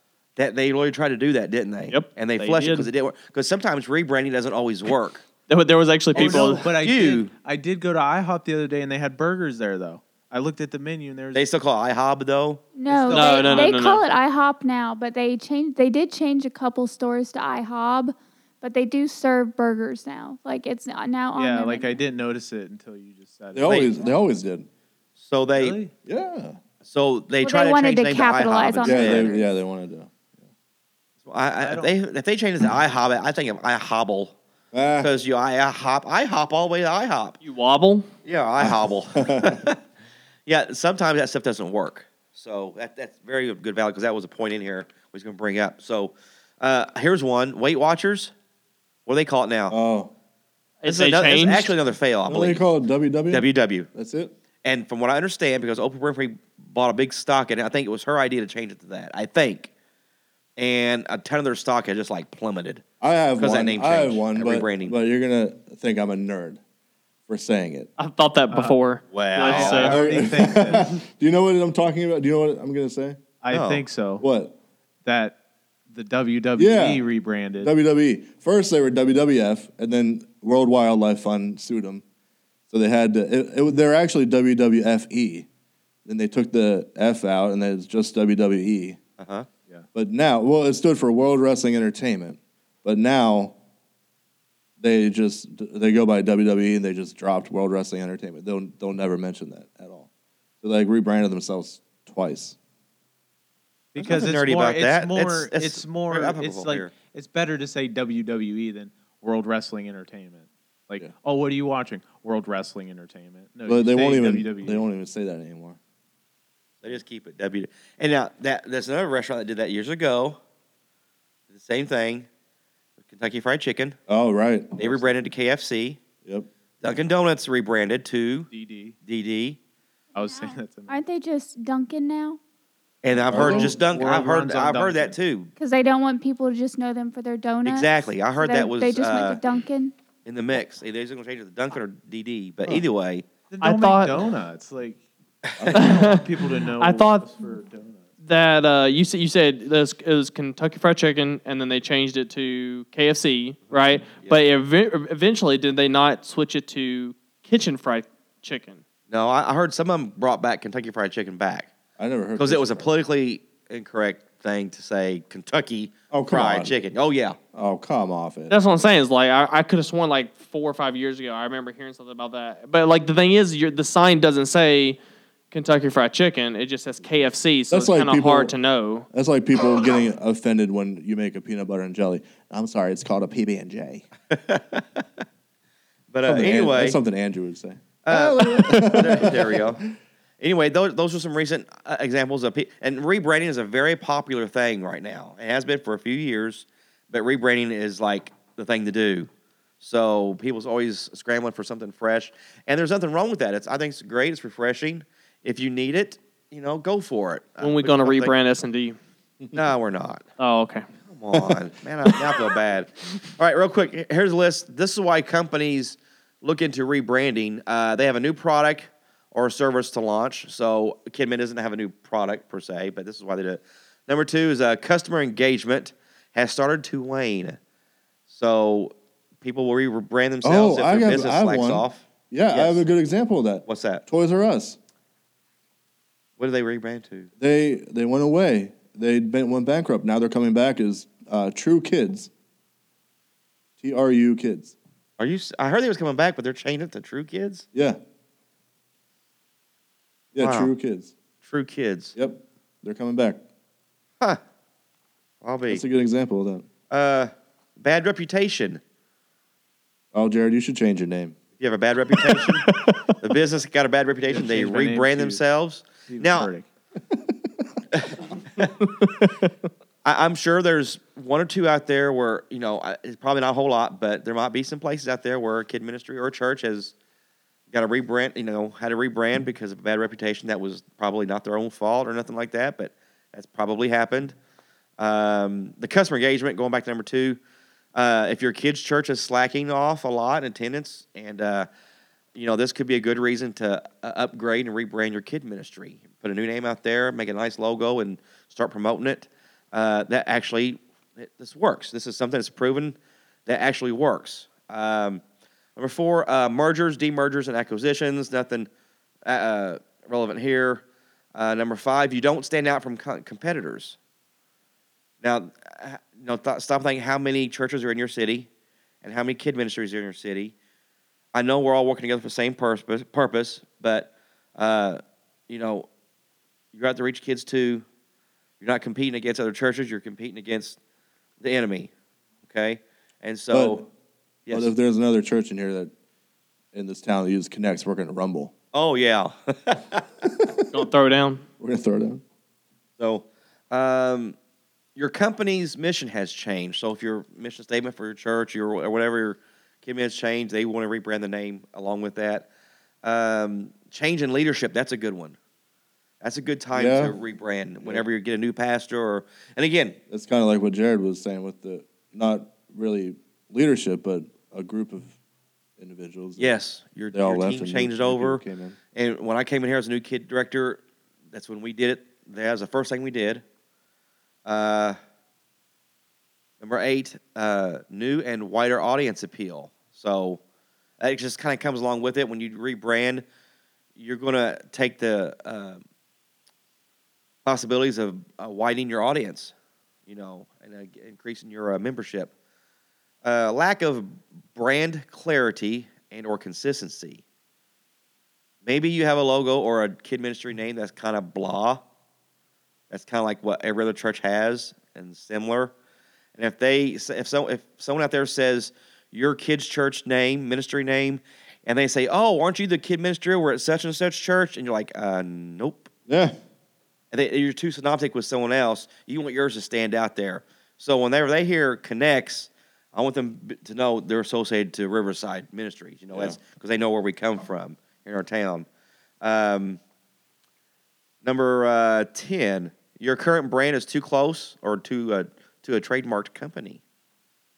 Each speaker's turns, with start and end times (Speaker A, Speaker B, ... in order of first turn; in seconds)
Speaker A: 0.3-5.2, 6.1-7.3, 11.3-12.6, 23.7-23.9, 25.2-25.8, 26.8-29.4, 31.2-34.4, 35.0-37.4, 38.2-39.8, 40.5-48.3, 49.0-49.8, 50.9-52.6, 53.3-53.9, 54.6-59.7, 60.6-62.8, 63.4-65.0, 69.1-69.9, 73.5-73.8, 89.2-89.5, 104.0-106.9, 116.8-120.4, 121.5-122.3, 123.1-124.0, 124.8-126.0, 126.8-128.5, 129.0-129.6, 133.0-135.5, 137.6-139.4, 140.2-143.2, 154.0-154.4, 159.1-161.7, 162.3-167.4, 184.3-185.2, 186.1-187.0, 188.0-189.8, 190.4-199.3, 199.8-208.3, 209.5-210.2, 211.1-227.6, 228.3-232.8, 233.7-234.0, 236.4-237.3, 245.2-247.7, 250.4-250.7, 251.4-252.1, 255.4-255.8, 256.9-258.8, 261.6-266.5, 267.9-268.7, 270.0-276.9, 277.7-284.4, 285.0-287.4, 287.9-291.7, 292.3-305.2, 305.8-308.7, 309.2-314.0, 315.2-318.5, 319.0-320.5, 321.3-325.9, 326.7-327.8, 328.6-330.8, 331.4-331.9, 332.4-333.8, 334.4-334.7, 338.7-340.1, 343.0-344.4, 344.9-352.5, 353.0-355.4, 356.2-360.0, 366.4-368.4, 368.9-373.4, 374.4-375.0, 376.6-380.4, 381.0-383.2, 383.9-385.8, 387.4-389.5, 390.1-392.3, 393.2-397.2, 398.6-401.8, 402.9-405.7, 406.4-415.9, 417.1-428.7, 429.2-429.8, 431.2-436.8
Speaker B: 1.9-2.9, 5.5-6.7, 13.1-14.0, 37.4-38.1, 50.8-51.7, 68.0-70.0, 143.6-144.2, 145.7-146.2, 146.8-147.3, 148.2-158.8, 168.5-175.0, 175.5-179.1, 207.6-208.9, 210.4-210.8, 340.7-341.4
Speaker C: 6.1-11.5, 12.9-13.7, 21.3-24.2, 25.5-25.9, 31.6-31.9, 68.5-68.8, 69.4-71.0, 73.4-74.2, 75.0-75.4, 75.9-77.7, 103.9-114.8, 128.5-128.9, 130.1-131.0, 133.3-135.2, 143.5-145.0, 145.7-148.1, 264.3-265.4, 266.1-266.7
Speaker D: 12.7-22.0, 27.4-29.5, 130.1-132.4, 135.6-139.9
Speaker E: 23.5-24.7, 26.0-26.6, 28.8-30.5, 34.7-35.1, 38.6-39.6, 49.7-50.1, 52.3-54.3, 63.0-66.6, 67.3-67.9, 69.8-73.2, 74.2-74.6, 76.5-77.0, 77.6-82.0, 82.7-85.5, 86.0-89.0, 89.9-93.5, 94.8-100.1, 100.6-102.6, 113.7-115.8, 124.1-125.1, 133.3-133.8, 145.6-146.1, 162.0-162.9, 166.1-166.8, 167.5-168.6, 177.7-178.5, 179.1-184.1, 186.2-189.9, 230.4-234.8, 237.4-242.3, 243.8-244.7, 247.7-248.0, 250.3-251.1, 252.1-253.4, 255.7-256.7, 260.1-261.4, 262.1-263.0, 267.1-267.4, 333.5-333.9, 334.5-335.9, 336.7-338.5, 341.6-342.2, 356.7-357.1, 360.1-365.1, 365.8-366.5, 367.1-368.8, 416.1-416.4, 426.1-426.4